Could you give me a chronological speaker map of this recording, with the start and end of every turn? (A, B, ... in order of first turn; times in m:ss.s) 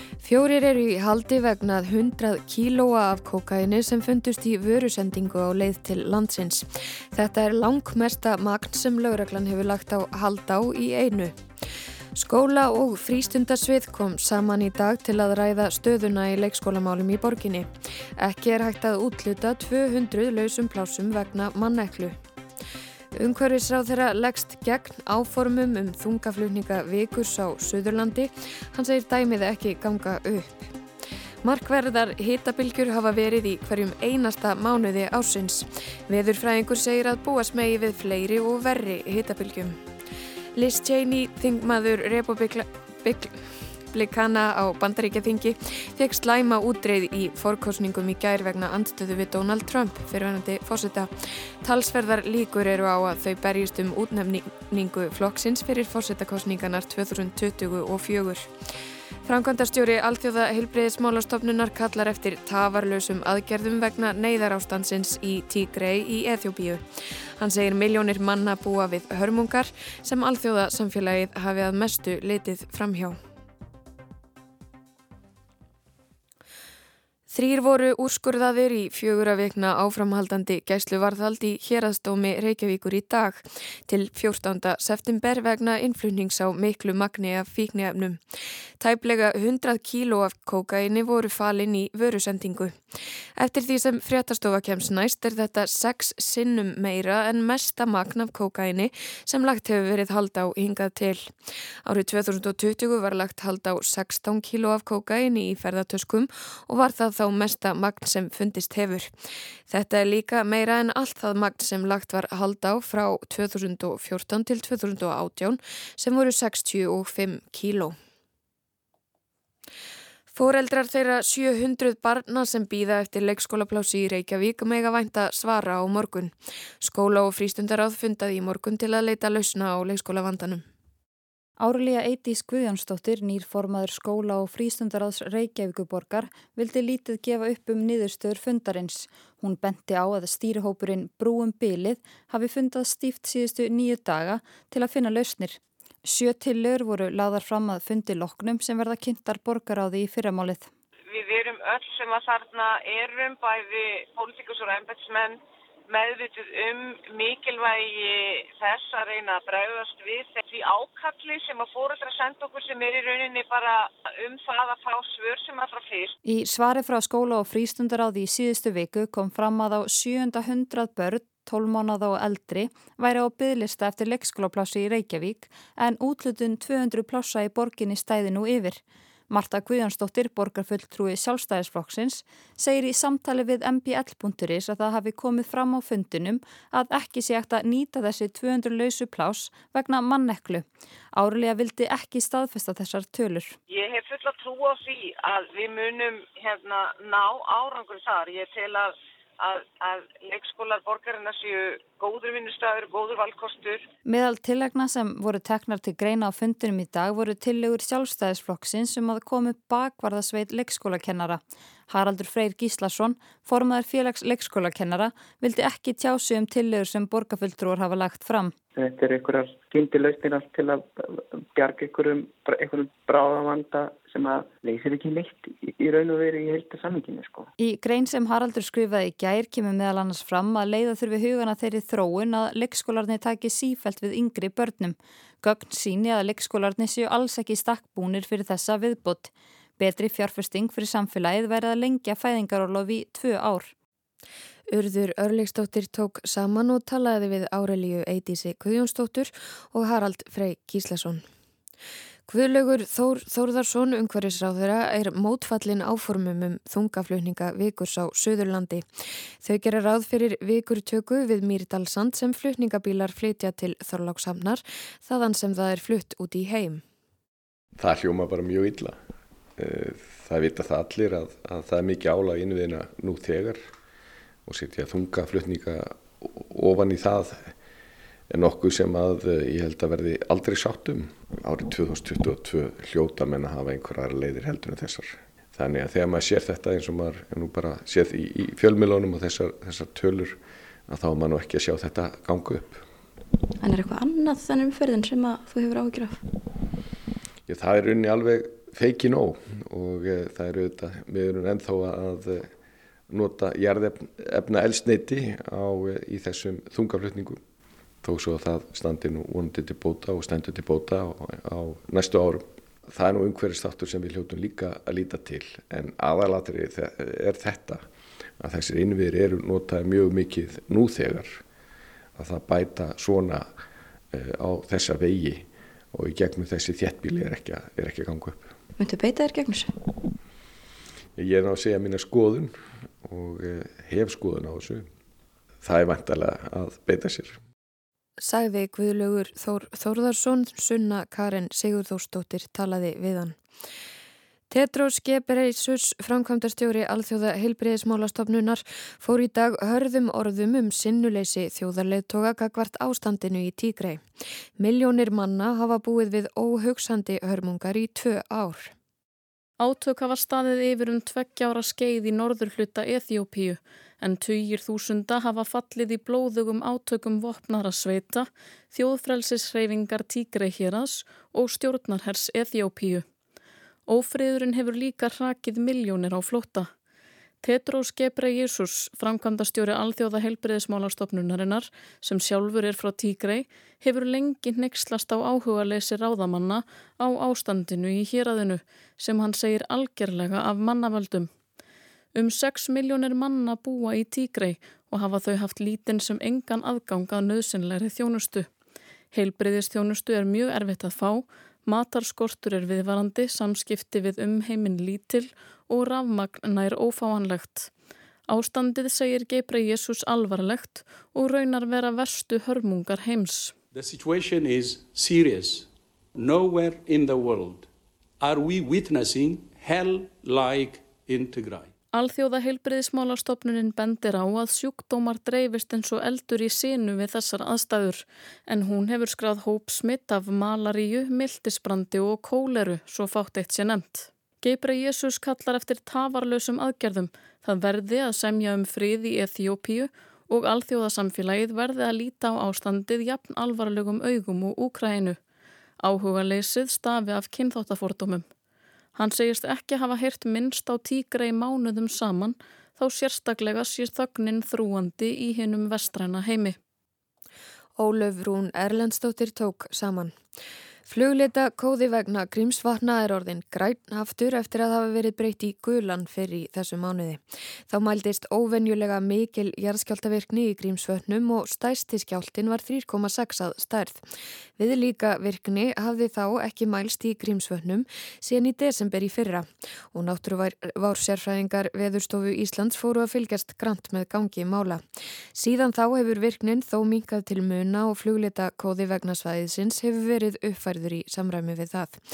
0:00.2-0:11.3 A
0:12.1-0:22.2 A
0:23.1-0:30.7 A
0:31.4-0:39.8 A
0:40.5-0:43.4 A
0:43.9-0:58.5 A
0:59.2-1:06.8 A
1:07.4-1:13.2 A
1:17.3-1:28.2 A
1:28.8-1:32.8 A
1:33.4-1:49.1 A
1:49.7-1:58.0 A
2:00.3-2:10.6 A
2:11.6-2:30.7 B
2:31.1-2:46.1 C
2:46.2-3:13.6 B
3:13.7-3:23.8 C
3:24.0-3:38.5 B
3:38.8-3:47.5 D
3:47.6-4:03.7 B
4:04.7-4:11.2 A
4:12.3-4:18.9 A
4:19.4-4:26.8 A
4:27.8-4:29.0 E
4:29.6-4:33.6 E
4:34.4-4:37.6 E
4:38.3-4:52.8 E
4:53.6-4:56.2 F
4:57.5-5:02.5 E
5:03.1-5:07.4 E
5:08.0-5:17.8 E
5:18.4-5:21.4 E
5:22.2-5:23.5 E
5:24.1-5:28.5 E
5:28.8-5:29.7 F
5:31.2-5:34.9 E
5:35.6-5:37.4 E
5:38.2-5:43.4 A
5:44.5-5:54.0 A
5:54.6-5:58.7 A
5:59.6-6:13.0 G
6:13.9-6:16.7 G
6:17.4-6:31.3 G
6:32.1-6:38.5 G
6:39.1-6:47.7 G
6:48.3-6:53.5 G
6:53.7-6:57.7 H
6:58.2-7:01.7 H
7:01.9-7:25.2 G
7:25.8-7:28.2 G
7:29.0-7:36.6 G
7:37.8-7:40.1 A
7:40.9-7:54.0 A
7:54.6-8:04.8 A
8:05.3-8:12.0 A